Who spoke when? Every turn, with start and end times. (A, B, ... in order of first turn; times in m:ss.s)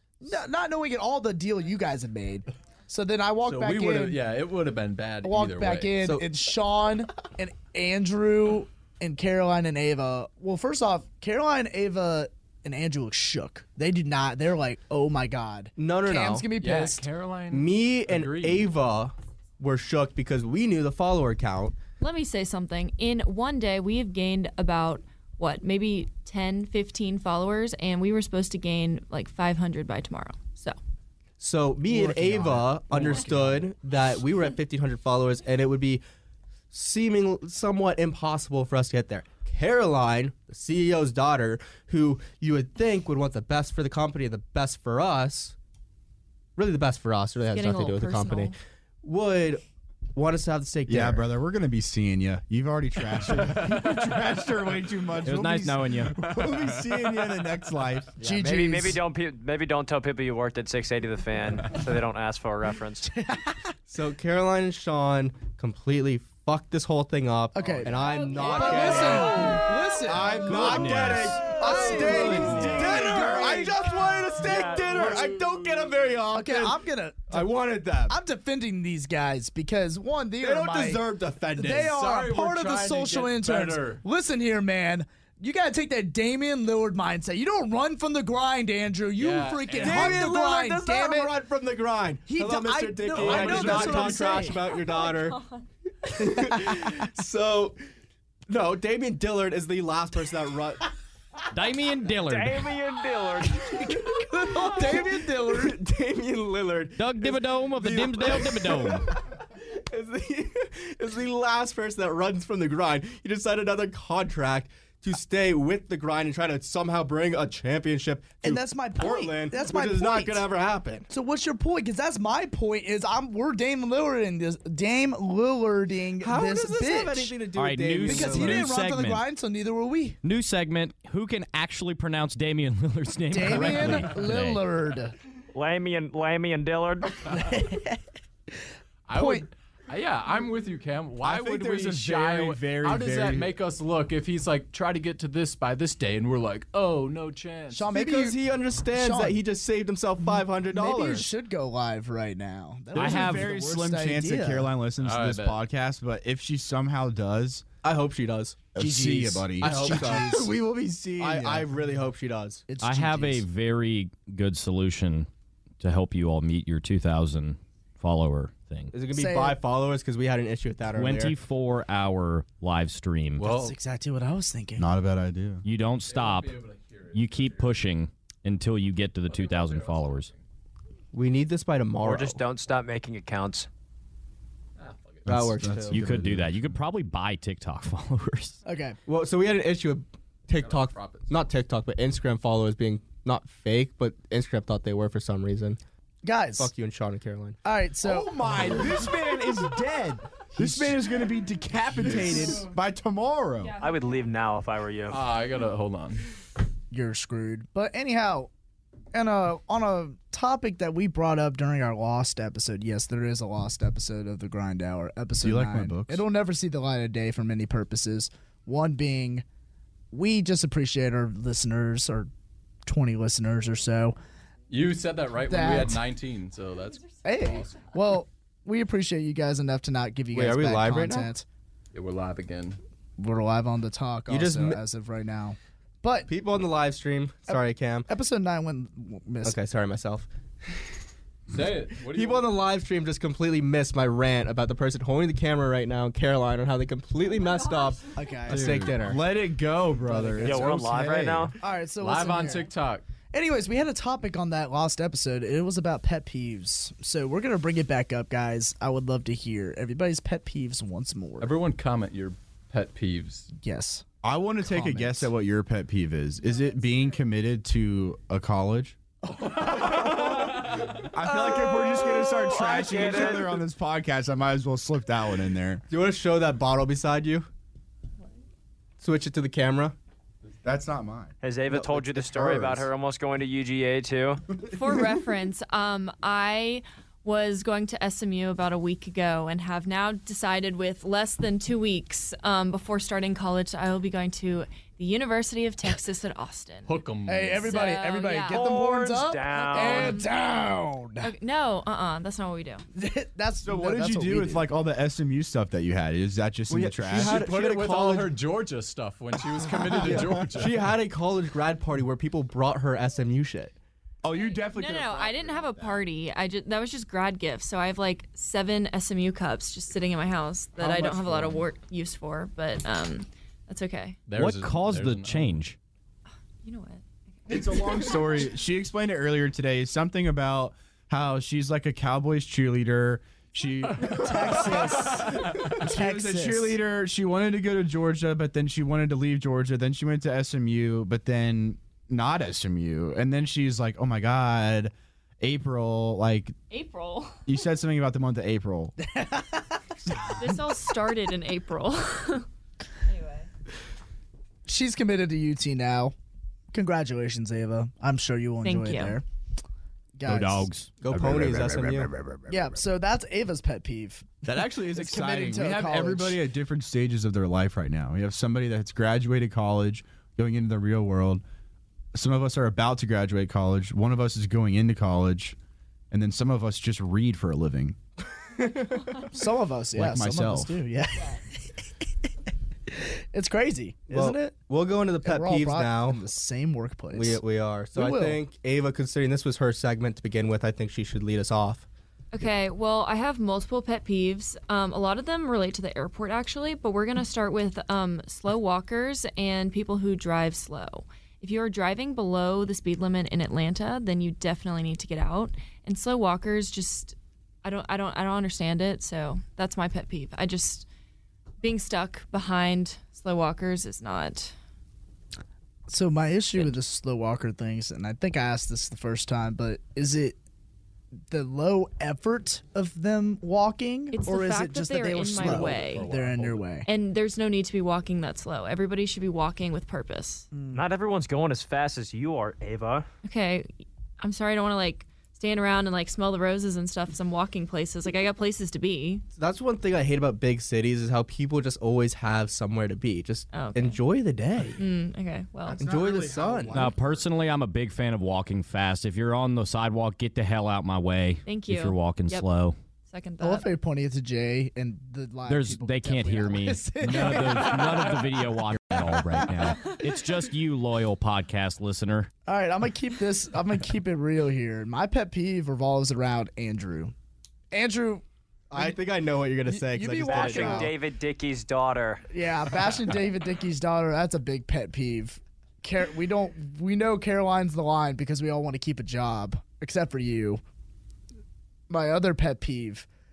0:00.2-0:04.2 A
0:03.4-0:06.0 B
0:05.2-0:17.1 A
0:06.0-0:06.3 C
0:15.8-0:16.5 C
0:16.6-0:18.7 B
0:17.5-0:21.8 C
0:22.0-0:30.8 D
0:31.4-0:36.0 C
0:31.9-0:33.4 A
0:36.7-0:45.6 C
0:46.6-0:49.6 C
0:47.5-0:48.6 D
0:50.1-0:51.3 C
0:50.9-0:58.2 E
0:53.4-0:54.1 B
0:55.2-0:56.3 F
0:58.2-0:59.0 A
0:58.2-1:03.1 G
1:03.0-1:03.7 A
1:03.9-1:09.6 C
1:07.5-1:14.0 A
1:10.0-1:13.8 E
1:10.4-1:12.9 F
1:11.4-1:11.9 C
1:12.4-1:16.7 C
1:14.5-1:16.0 B
1:14.9-1:15.2 A
1:16.3-1:17.5 A
1:17.3-1:18.1 C
1:17.5-1:18.1 E
1:18.1-1:31.4 A
1:20.4-1:21.7 C
1:20.7-1:21.3 E
1:21.7-1:24.0 B
1:29.2-1:30.3 B
1:29.8-1:35.4 C
1:32.3-1:34.8 A
1:33.2-1:34.3 B
1:36.1-1:37.8 C
1:38.5-1:40.9 C
1:41.5-1:42.7 F
1:42.2-1:43.8 G
1:43.6-1:45.8 A
1:44.5-2:01.1 C
1:47.0-1:49.1 F
1:58.4-2:00.5 A
2:01.1-2:07.4 A
2:06.2-2:08.7 C
2:07.6-2:09.2 F
2:08.0-2:10.2 A
2:10.2-2:14.6 F
2:13.3-2:15.1 A
2:15.5-2:17.3 G
2:17.3-2:18.0 A
2:19.1-2:27.9 B
2:19.1-2:19.5 A
2:21.2-2:23.5 E
2:27.7-2:28.4 A
2:27.9-2:31.3 C
2:28.9-2:29.4 A
2:30.2-2:34.7 A
2:33.0-2:33.6 F
2:33.0-2:37.6 E
2:35.0-2:35.6 B
2:37.8-2:38.7 C
2:38.8-2:40.5 A
2:38.8-2:41.7 E
2:39.6-2:40.4 C
2:41.2-2:42.6 C
2:42.7-2:43.5 A
2:42.8-2:45.3 F
2:45.8-2:48.9 F
2:48.9-2:51.4 C
2:49.1-2:49.6 A
2:51.0-2:53.6 F
2:53.4-2:53.7 B
2:53.4-2:54.9 A
2:54.8-2:55.6 E
2:55.6-2:56.6 F
2:56.0-2:57.8 B
2:57.1-3:00.3 F
2:59.3-3:00.4 B
3:01.1-3:02.4 C
3:02.0-3:03.7 G
3:04.8-3:05.3 B
3:05.3-3:06.0 C
3:05.3-3:06.8 E
3:05.9-3:08.6 F
3:08.6-3:09.0 A
3:09.1-3:15.8 C
3:10.5-3:11.4 B
3:16.2-3:16.7 A
3:16.6-3:17.6 C
3:17.6-3:19.1 A
3:18.0-3:23.8 E
3:20.6-3:21.0 A
3:22.1-3:22.7 A
3:23.8-3:25.2 G
3:25.1-3:26.3 B
3:26.9-3:28.5 A
3:29.1-3:39.4 A
3:35.4-3:36.2 E
3:40.1-3:42.3 A
3:42.9-3:44.2 A
3:44.7-3:47.9 B
3:45.5-3:46.0 A
3:47.2-3:51.4 A
3:50.3-3:51.3 C
3:51.9-3:52.8 B
3:53.2-3:56.3 A
3:54.3-3:54.8 C
3:56.3-3:58.1 C
3:57.5-3:59.6 A
3:59.4-4:00.3 C
4:01.5-4:02.5 B
4:02.0-4:09.2 C
4:08.1-4:08.9 A
4:08.5-4:11.5 E
4:09.9-4:10.9 A
4:10.4-4:11.6 G
4:11.6-4:12.7 A
4:12.0-4:13.0 B
4:13.3-4:21.5 A
4:21.4-4:23.5 B
4:23.6-4:24.1 A
4:24.2-4:29.0 E
4:24.6-4:25.3 A
4:29.7-4:35.8 E
4:31.4-4:33.6 G
4:35.9-4:37.5 C
4:39.0-4:40.0 C
4:40.6-4:42.9 E
4:41.4-4:44.4 G
4:44.6-4:57.0 D
4:56.9-4:57.8 B
4:57.3-5:01.3 A
4:57.6-4:58.7 D
4:58.5-5:00.2 G
4:59.9-5:00.3 D
5:01.2-5:02.8 D
5:03.0-5:04.6 A
5:03.6-5:07.5 E
5:06.7-5:08.4 C
5:07.0-5:10.9 B
5:10.0-5:13.7 C
5:14.2-5:16.0 E
5:14.6-5:24.3 D
5:20.8-5:21.6 C
5:21.1-5:21.5 E
5:24.3-5:25.6 B
5:24.3-5:25.8 F
5:26.6-5:28.5 D
5:27.5-5:46.6 E
5:34.0-5:36.8 A
5:46.7-5:47.4 D
5:47.4-5:49.0 E
5:49.0-5:49.8 A
5:50.4-5:52.5 D
5:53.0-5:53.5 D
5:54.6-5:56.1 A
5:56.7-5:59.2 A
5:58.6-5:59.2 D
6:00.2-6:00.7 A
6:00.2-6:02.0 F
6:01.0-6:02.1 C
6:02.0-6:02.7 E
6:02.5-6:06.4 A
6:04.4-6:11.4 E
6:12.1-6:15.6 E
6:16.1-6:18.0 E
6:18.5-6:19.1 C
6:19.3-6:21.8 A
6:19.9-6:20.8 E
6:22.9-6:24.5 A
6:24.1-6:26.2 C
6:25.2-6:28.4 A
6:27.1-6:31.9 C
6:32.3-6:50.9 D
6:51.6-6:54.6 D
6:55.9-7:00.4 A
7:01.3-7:06.9 A
7:04.1-7:06.1 D
7:05.3-7:06.6 B
7:06.9-7:10.5 D
7:10.5-7:10.8 A
7:10.7-7:13.1 G
7:13.2-7:13.7 D
7:14.2-7:19.2 D
7:19.4-7:24.8 C
7:23.5-7:24.0 D
7:24.8-7:25.9 D
7:25.7-7:27.0 E
7:25.7-7:26.9 C
7:26.7-7:32.8 F
7:31.5-7:32.5 D
7:33.1-7:33.7 D
7:33.4-7:38.1 A
7:35.5-7:42.3 F
7:37.1-7:38.1 B
7:39.3-7:39.9 A
7:42.5-7:47.1 A
7:47.7-7:49.0 A
7:48.7-7:50.9 C
7:49.7-7:50.9 A
7:50.3-7:52.3 G
7:52.3-8:00.6 A
8:01.9-8:03.1 A